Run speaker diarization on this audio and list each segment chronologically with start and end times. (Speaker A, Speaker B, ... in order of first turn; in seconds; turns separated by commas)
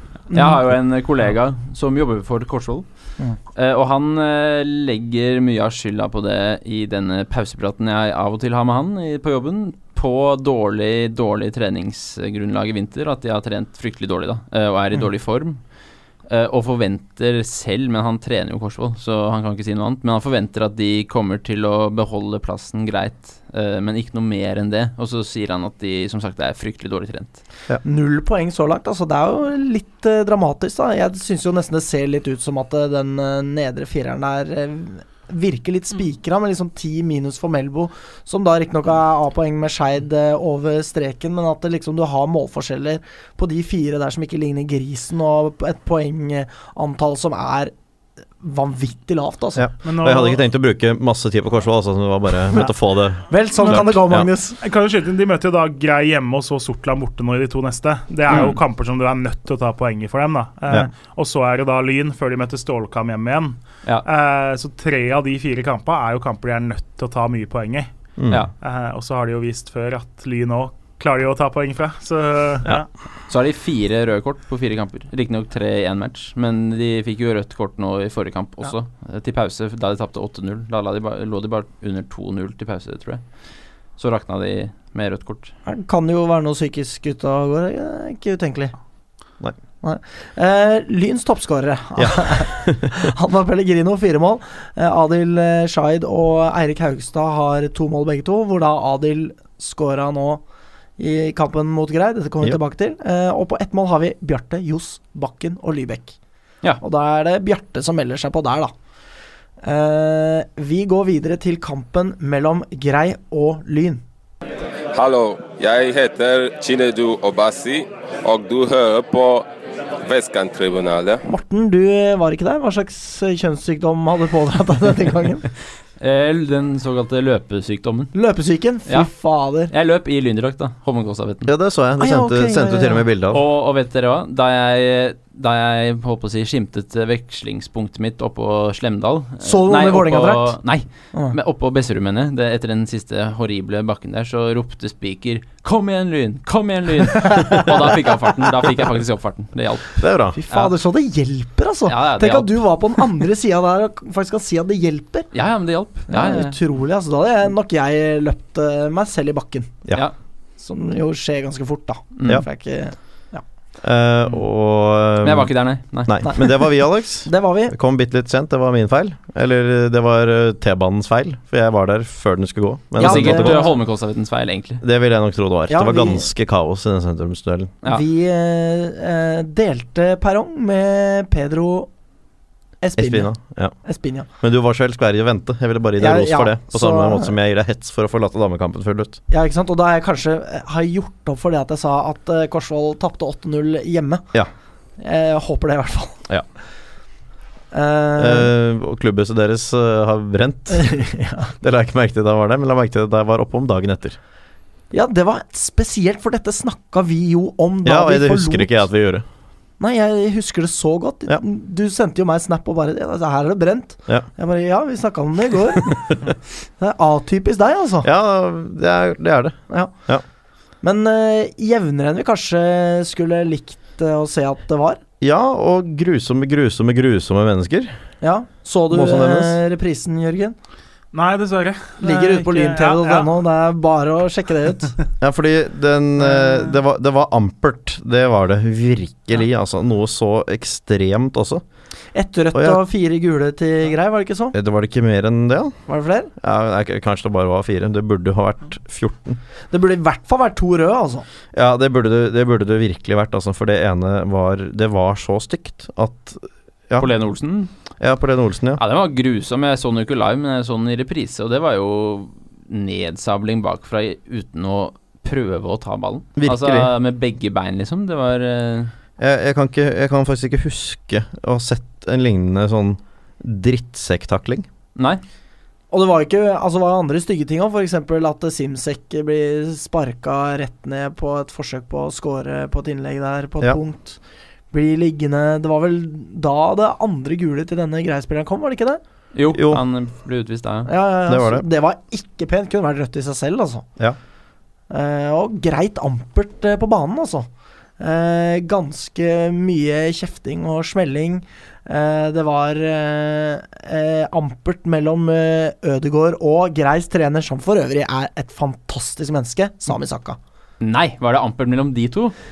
Speaker A: 0.3-0.6, Speaker B: 0.3-27.4, Speaker A: 27.8-47.7, Speaker A: 48.4-49.7, Speaker C: 49.6-54.3, Speaker D: 49.8-50.4, Speaker A: 53.3-54.6, Speaker D: 54.6-72.9, Speaker C: 68.2-68.5, Speaker B: 73.3-85.5, Speaker A: 85.7-88.7, Speaker A: 89.8-100.4, Speaker C: 92.0-93.1, Speaker A: 101.0-106.2, Speaker A: 106.8-108.7, Speaker A: 109.6-114.0, Speaker E: 114.9-119.5, Speaker E: 120.0-121.2, Speaker A: 121.2-125.5, Speaker B: 126.0-128.2, Speaker A: 128.1-129.7, Speaker B: 128.9-131.5, Speaker C: 131.5-133.4, Speaker A: 132.0-133.1, Speaker B: 133.3-150.7, Speaker A: 139.4-141.3, Speaker A: 148.1-148.3, Speaker C: 150.0-150.4, Speaker A: 150.3-155.3, Speaker B: 151.9-153.0, Speaker B: 155.3-156.6, Speaker A: 156.1-159.8, Speaker A: 160.6-163.4, Speaker B: 162.2-162.4, Speaker C: 163.8-173.7, Speaker B: 165.2-166.5, Speaker A: 166.2-167.8, Speaker A: 173.0-173.8, Speaker B: 173.0-174.8, Speaker C: 174.8-177.8, Speaker A: 175.7-176.3, Speaker A: 177.8-181.9, Speaker A: 182.8-184.3, Speaker C: 183.0-183.8, Speaker C: 184.4-189.2, Speaker A: 186.0-187.3, Speaker A: 189.3-194.3, Speaker A: 195.0-196.3, Speaker A: 197.7-198.5, Speaker C: 198.2-204.2, Speaker A: 200.7-201.5, Speaker A: 204.9-208.9, Speaker C: 207.8-209.2, Speaker A: 209.8-218.1, Speaker C: 218.0-220.2, Speaker A: 220.8-225.0, Speaker C: 225.2-228.1, Speaker A: 228.2-230.6, Speaker C: 228.9-229.6, Speaker D: 231.1-233.3, Speaker A: 232.0-235.0, Speaker C: 235.2-241.6, Speaker A: 242.1-244.5, Speaker C: 242.5-242.8, Speaker C: 244.5-245.8, Speaker A: 245.9-246.3, Speaker C: 246.4-249.4, Speaker A: 249.7-251.2, Speaker C: 251.5-257.1, Speaker B: 257.0-257.7, Speaker C: 258.0-258.8, Speaker B: 258.8-268.9, Speaker C: 266.4-266.9, Speaker C: 269.2-274.7, Speaker B: 275.0-275.2, Speaker A: 275.9-289.0, Speaker B: 289.3-290.9, Speaker C: 289.5-289.8, Speaker A: 290.9-293.9, Speaker C: 291.3-291.6, Speaker A: 294.9-297.5, Speaker A: 298.0-310.4, Speaker B: 310.8-312.4